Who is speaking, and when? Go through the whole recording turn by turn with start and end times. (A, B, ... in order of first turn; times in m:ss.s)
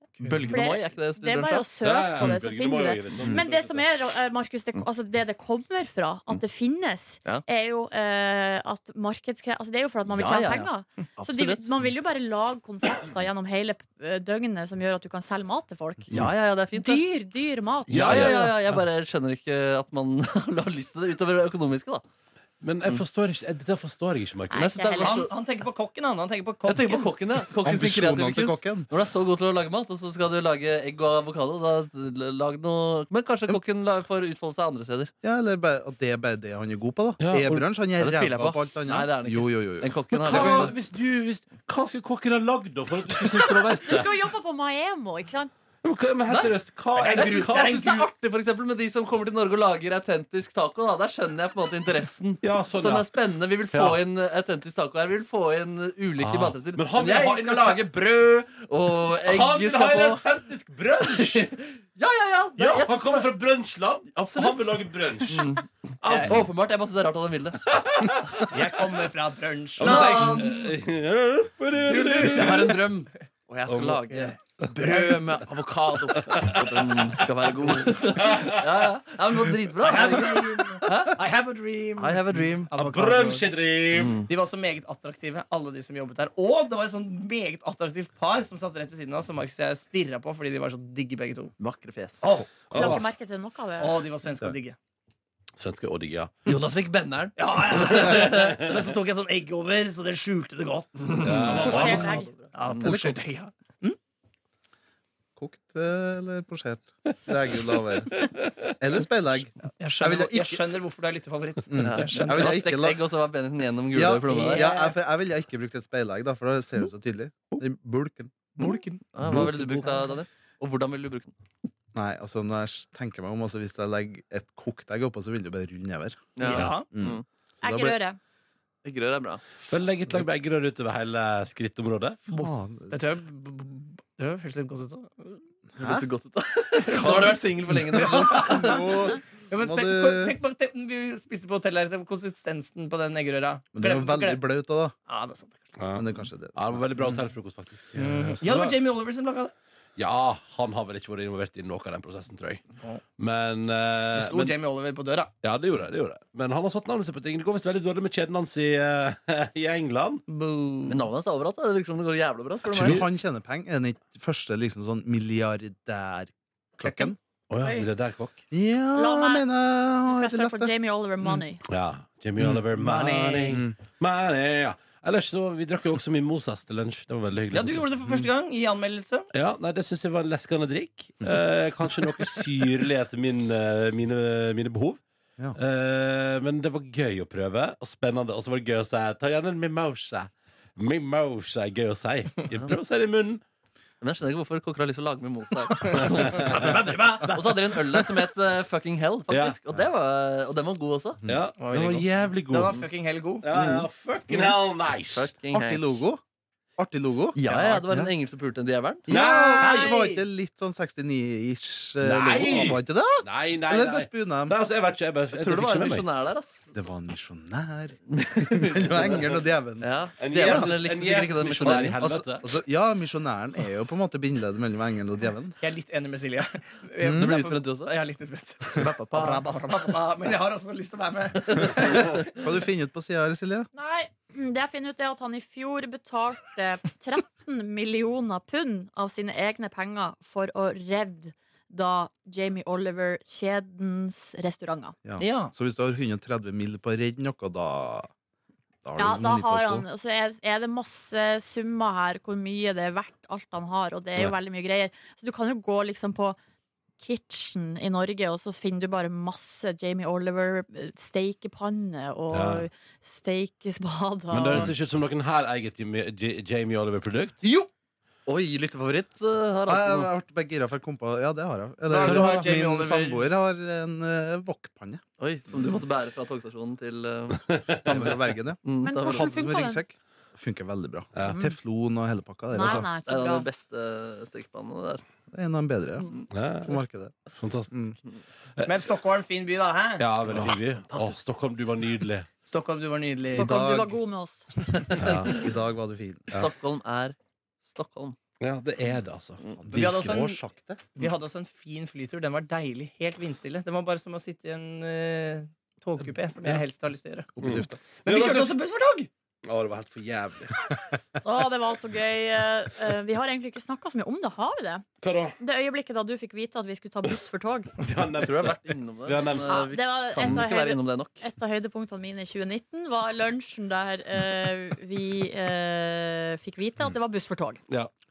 0:00.2-0:01.7 A
0:00.4-0:16.1 B
0:01.8-0:03.9 C
0:03.2-0:03.4 D
0:10.1-0:11.7 A
0:16.1-0:17.0 A
0:16.7-0:18.2 B
0:17.9-0:18.8 C
0:17.9-0:22.0 A
0:22.6-0:24.6 C
0:24.5-0:25.3 B
0:24.6-0:25.3 A
0:25.0-0:27.1 E
0:26.6-0:35.1 A
0:27.5-0:28.9 D
0:35.2-0:40.7 D
0:37.2-0:37.6 C
0:38.0-0:40.8 A
0:40.2-0:44.1 C
0:43.3-0:43.9 A
0:43.8-0:45.5 B
0:45.8-0:48.1 C
0:46.3-1:00.2 A
0:47.0-0:47.8 E
0:52.4-0:53.1 C
0:53.7-0:54.0 C
0:56.2-0:57.9 C
0:59.2-1:01.5 C
1:01.1-1:03.4 A
1:02.6-1:05.5 C
1:04.3-1:05.7 A
1:06.0-1:06.5 C
1:06.2-1:07.6 A
1:07.6-1:08.7 C
1:08.5-1:10.5 E
1:09.8-1:12.8 C
1:09.8-1:10.4 A
1:12.1-1:21.2 A
1:13.7-1:14.1 C
1:16.2-1:16.8 C
1:18.1-1:18.6 C
1:19.9-1:23.4 E
1:22.0-1:22.7 A
1:22.8-1:24.2 C
1:23.9-1:24.3 A
1:24.2-1:31.5 E
1:31.6-1:32.3 A
1:32.2-1:32.6 E
1:32.7-1:34.0 B
1:32.7-1:33.1 C
1:33.8-1:34.8 E
1:35.6-1:36.4 C
1:36.4-1:38.5 A
1:37.4-1:44.0 E
1:37.8-1:38.5 C
1:41.0-1:42.9 A
1:41.2-1:42.2 C
1:41.5-1:42.3 B
1:42.8-1:43.2 D
1:45.4-1:50.7 D
1:47.7-1:48.3 C
1:49.7-1:52.5 E
1:51.7-1:53.0 D
1:51.8-1:54.8 A
1:53.9-1:58.5 D
1:54.3-1:54.7 E
1:58.7-2:01.3 A
1:59.2-1:59.7 D
2:01.9-2:08.0 D
2:06.4-2:07.2 A
2:06.4-2:06.8 E
2:06.4-2:06.8 C
2:07.6-2:08.2 B
2:08.8-2:09.4 A
2:09.7-2:12.2 C
2:12.3-2:15.4 E
2:12.3-2:12.9 D
2:15.8-2:16.0 D
2:15.8-2:19.0 A
2:17.0-2:17.4 E
2:17.9-2:20.4 D
2:18.0-2:18.4 E
2:19.5-2:24.4 E
2:23.7-2:24.9 D
2:25.1-2:25.6 E
2:25.8-2:28.8 C
2:25.9-2:27.2 D
2:28.1-2:29.5 E
2:30.0-2:32.6 C
2:33.2-2:34.6 C
2:34.2-2:35.3 E
2:35.4-2:40.2 C
2:40.3-2:41.0 E
2:40.9-2:43.0 A
2:42.7-2:47.2 D
2:42.7-2:43.1 C
2:46.8-2:47.1 E
2:47.5-2:48.4 C
2:47.6-2:47.9 B
2:48.5-2:51.4 D
2:48.9-2:49.5 B
2:50.0-2:51.6 B
2:51.6-2:57.8 C
2:52.4-2:53.7 D
2:52.8-2:53.4 E
2:57.5-2:59.3 E
2:59.3-3:05.0 C
3:05.6-3:13.4 C
3:14.0-3:21.2 A
3:16.2-3:16.6 C
3:19.3-3:19.6 C
3:21.3-3:22.9 C
3:21.6-3:23.4 E
3:23.4-3:25.3 C
3:25.1-3:26.0 A
3:25.5-3:26.2 D
3:26.8-3:28.1 D
3:27.3-3:29.0 A
3:29.1-3:30.0 C
3:29.1-3:34.6 D
3:29.6-3:30.2 E
3:32.0-3:36.0 C
3:35.3-3:36.9 A
3:36.7-3:40.7 D
3:38.1-3:39.2 A
3:39.8-3:42.2 A
3:40.2-3:42.4 C
3:41.6-3:45.6 D
3:45.6-3:52.0 E
3:47.0-3:47.3 D
3:47.0-3:48.0 A
3:48.7-3:49.4 A
3:51.8-3:53.7 D
3:53.7-4:05.0 B
4:05.0-4:08.1 D
4:05.2-4:05.5 E
4:08.8-4:09.9 D
4:09.0-4:16.4 B
4:17.0-4:24.7 B
4:22.3-4:22.7 C
4:24.3-4:27.4 C
4:28.2-4:30.1 A
4:29.7-4:35.0 D
4:31.9-4:33.2 E
4:32.0-4:32.4 C
4:35.2-4:39.4 A
4:37.8-4:42.9 D
4:38.8-4:39.8 B
4:41.2-4:41.6 B
4:42.5-4:43.5 B
4:43.0-4:45.0 A
4:45.3-4:47.1 D
4:46.3-4:46.8 C
4:47.4-4:47.8 C
4:47.7-4:48.0 D
4:48.6-4:50.0 E
4:50.0-4:52.3 C
4:50.3-4:51.2 A
4:52.4-4:53.4 E
4:53.3-4:53.9 D
4:53.3-4:54.4 B
4:54.9-4:55.1 A
4:55.0-4:55.5 C
4:55.1-4:56.3 D
4:56.4-4:58.2 A
4:58.4-5:00.3 C
4:59.5-5:00.8 D
4:59.8-5:00.4 E
5:00.9-5:07.3 E
5:07.4-5:07.8 D
5:07.4-5:08.5 C
5:08.0-5:09.1 E
5:09.4-5:10.7 C
5:11.2-5:14.8 B
5:15.0-5:15.4 C
5:15.4-5:17.7 B
5:17.8-5:19.6 C
5:18.2-5:21.2 A
5:19.4-5:27.6 B
5:20.2-5:20.4 C